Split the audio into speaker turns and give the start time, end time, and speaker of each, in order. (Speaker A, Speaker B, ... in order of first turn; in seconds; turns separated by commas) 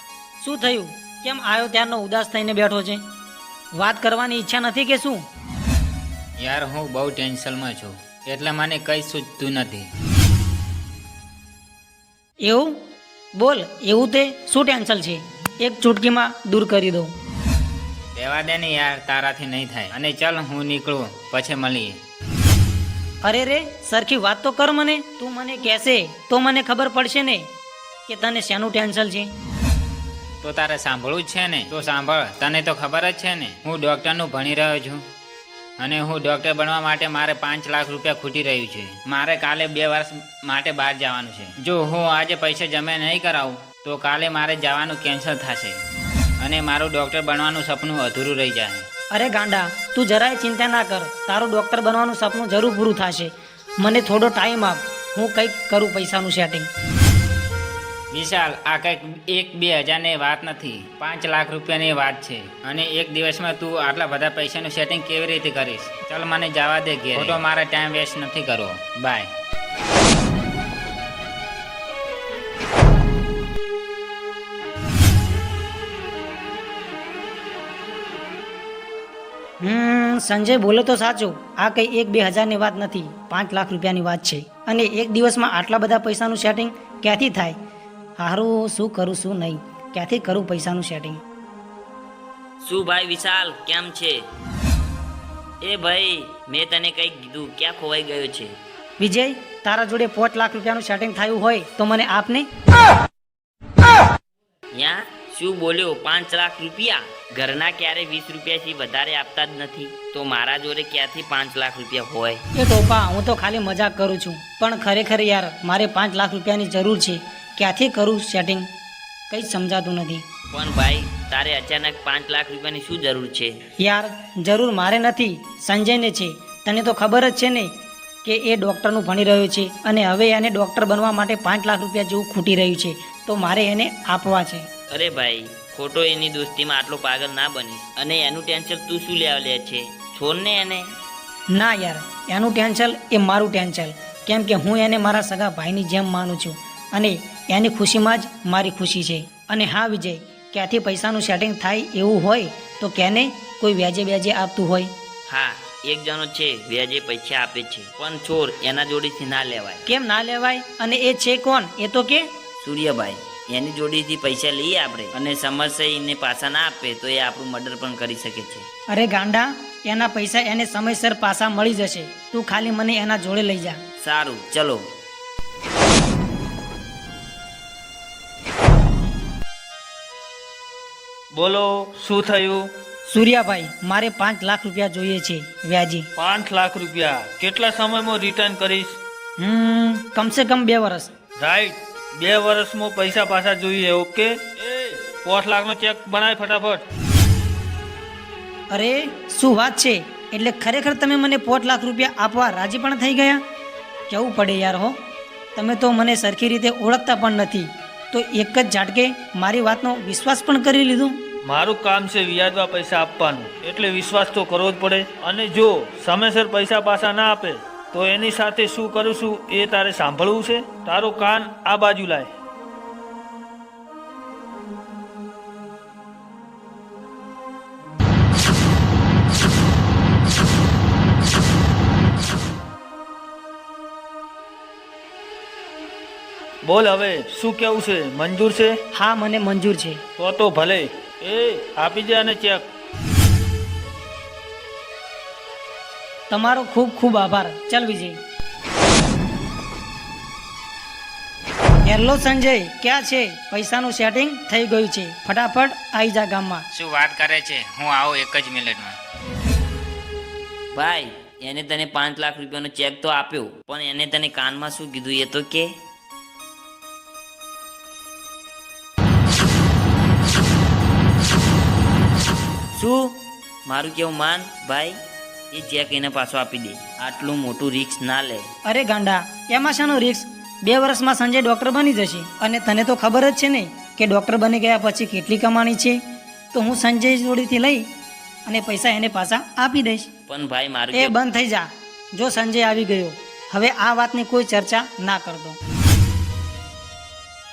Speaker A: 0.4-3.0, Speaker A: 3.8-5.2, Speaker B: 6.4-9.9, Speaker A: 12.4-12.8, Speaker A: 13.4-17.1, Speaker B: 18.1-22.0, Speaker A: 23.2-27.5, Speaker A: 28.1-29.3, Speaker B: 30.4-35.0, Speaker B: 35.8-45.8, Speaker B: 46.4-48.9, Speaker A: 49.1-56.7, Speaker B: 58.1-69.3, Speaker A: 79.6-87.6, Speaker A: 88.2-91.2, Speaker C: 92.6-94.2, Speaker C: 95.6-98.5, Speaker A: 99.0-102.5, Speaker C: 104.7-112.4, Speaker A: 112.5-118.7, Speaker A: 119.3-120.2, Speaker C: 120.5-123.5, Speaker A: 123.8-127.7, Speaker A: 128.2-134.7, Speaker C: 134.9-140.9, Speaker A: 141.5-154.9, Speaker C: 155.3-159.8, Speaker A: 159.9-162.3, Speaker C: 162.6-168.7, Speaker A: 168.9-173.8, Speaker C: 174.0-174.8, Speaker D: 181.3-182.7, Speaker A: 183.1-186.1, Speaker D: 186.2-189.0, Speaker A: 189.4-191.1, Speaker D: 191.4-196.8, Speaker A: 198.7-203.4, Speaker A: 204.1-204.9, Speaker A: 205.6-211.2, Speaker D: 211.4-222.3, Speaker D: 236.6-238.8, Speaker A: 238.9-240.0, Speaker D: 240.2-242.6, Speaker A: 246.3-248.2, Speaker A: 251.8-256.7, Speaker B: 256.7-259.0, Speaker C: 260.7-265.7, Speaker C: 272.7-273.1, Speaker C: 273.7-274.9, Speaker C: 275.5-278.4, Speaker A: 278.6-286.0, Speaker A: 286.5-287.8, Speaker A: 288.5-290.1, Speaker C: 290.3-291.1, Speaker A: 290.9-295.6